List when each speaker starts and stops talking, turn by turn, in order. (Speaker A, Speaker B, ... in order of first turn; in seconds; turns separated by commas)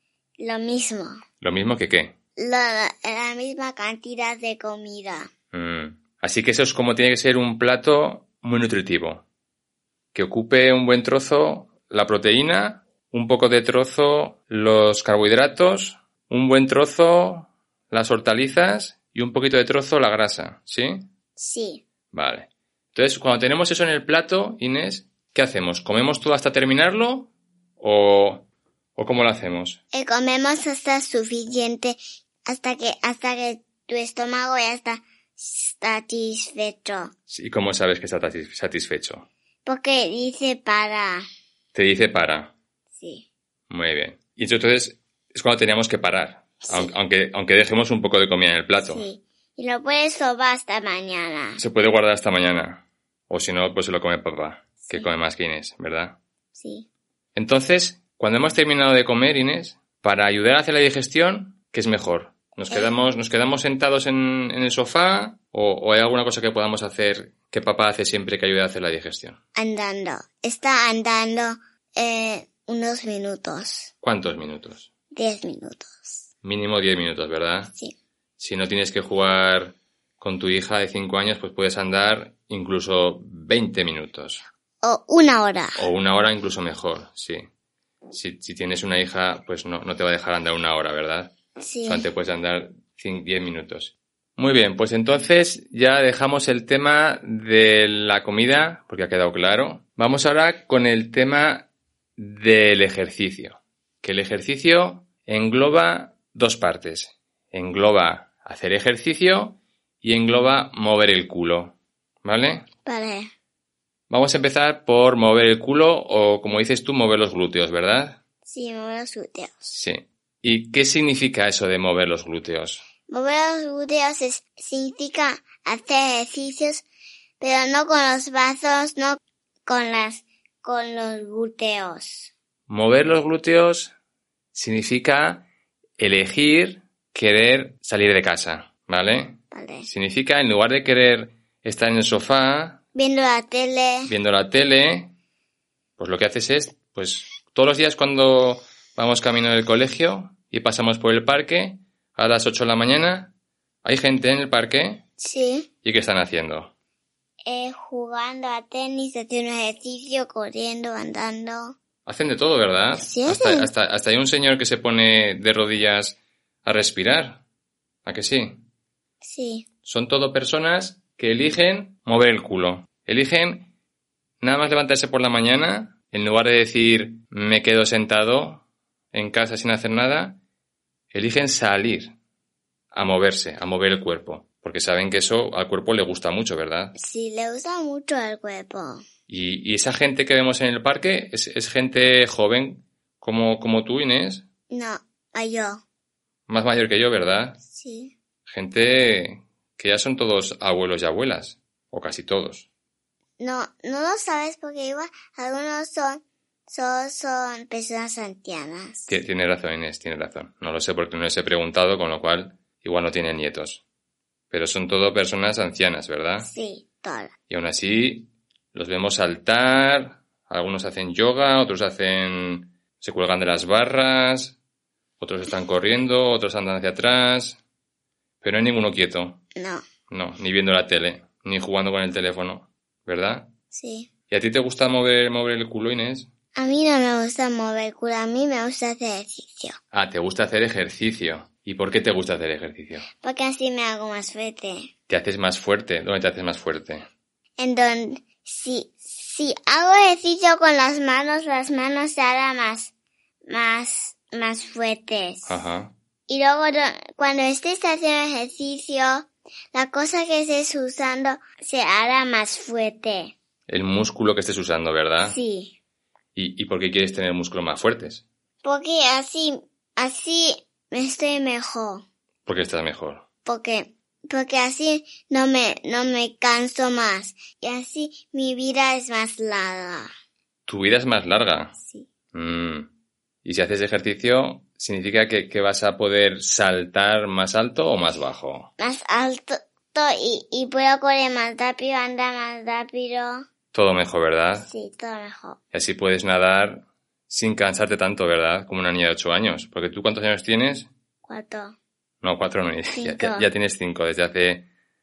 Speaker A: 0.4-1.1, Speaker B: 1.4-2.1, Speaker A: 2.4-5.3, Speaker B: 5.5-9.2, Speaker B: 10.1-21.0, Speaker A: 21.4-21.8, Speaker B: 22.1-29.8, Speaker A: 29.9-37.1, Speaker B: 37.3-39.3, Speaker A: 39.6-41.2, Speaker B: 41.7-42.5, Speaker A: 42.9-43.2, Speaker B: 43.7-49.0, Speaker A: 46.6-46.9, Speaker A: 48.8-51.6, Speaker B: 51.6-56.2, Speaker A: 56.5-56.9, Speaker B: 57.4-69.4, Speaker A: 62.7-63.0, Speaker A: 69.5-73.9, Speaker B: 74.0-74.9, Speaker A: 75.1-76.2, Speaker B: 76.4-77.7, Speaker B: 78.4-84.4, Speaker A: 84.8-85.8, Speaker B: 85.8-87.4, Speaker B: 88.1-91.3, Speaker A: 91.6-92.1, Speaker B: 91.8-112.7, Speaker A: 112.8-113.3, Speaker B: 114.1-118.2, Speaker A: 118.4-119.7, Speaker B: 119.7-122.8, Speaker A: 123.1-126.8, Speaker A: 127.4-132.3, Speaker B: 132.7-133.9, Speaker B: 134.5-135.5, Speaker B: 136.0-142.8, Speaker A: 139.5-139.9, Speaker A: 142.9-144.1, Speaker B: 144.1-145.1, Speaker B: 146.0-153.3, Speaker B: 153.8-155.0, Speaker A: 155.2-155.7, Speaker B: 155.8-156.7, Speaker A: 157.4-161.8, Speaker B: 162.1-167.4, Speaker A: 163.0-163.7, Speaker B: 168.0-168.6, Speaker A: 169.2-169.7, Speaker B: 169.8-173.7, Speaker B: 174.4-180.4, Speaker B: 181.1-182.1, Speaker B: 182.9-186.9, Speaker A: 186.9-189.0, Speaker B: 189.3-194.4, Speaker A: 194.7-195.8, Speaker B: 196.5-197.6, Speaker A: 197.7-198.1, Speaker B: 198.5-202.7, Speaker A: 203.4-209.2, Speaker B: 209.1-213.8, Speaker B: 214.5-216.5, Speaker A: 216.4-217.3, Speaker B: 217.5-224.6, Speaker B: 225.2-227.6, Speaker B: 228.4-229.4, Speaker A: 229.6-229.8, Speaker B: 230.1-233.5, Speaker A: 233.7-234.1, Speaker B: 234.3-236.3, Speaker A: 236.5-239.8, Speaker B: 239.9-243.1, Speaker A: 243.2-244.9, Speaker B: 245.1-247.1, Speaker A: 247.6-252.9, Speaker A: 253.5-255.6, Speaker B: 255.4-255.9, Speaker A: 256.3-263.3, Speaker B: 263.7-265.4, Speaker A: 265.2-265.8, Speaker B: 266.3-268.2, Speaker A: 268.6-272.0, Speaker B: 272.4-273.2, Speaker A: 273.4-280.1, Speaker B: 280.7-281.8, Speaker A: 281.8-282.1, Speaker B: 282.3-282.9, Speaker B: 283.4-288.7, Speaker A: 288.8-293.4, Speaker B: 293.7-294.7, Speaker A: 294.6-295.6, Speaker B: 295.7-300.9, Speaker A: 301.2-301.8, Speaker B: 302.2-304.7, Speaker A: 302.9-303.5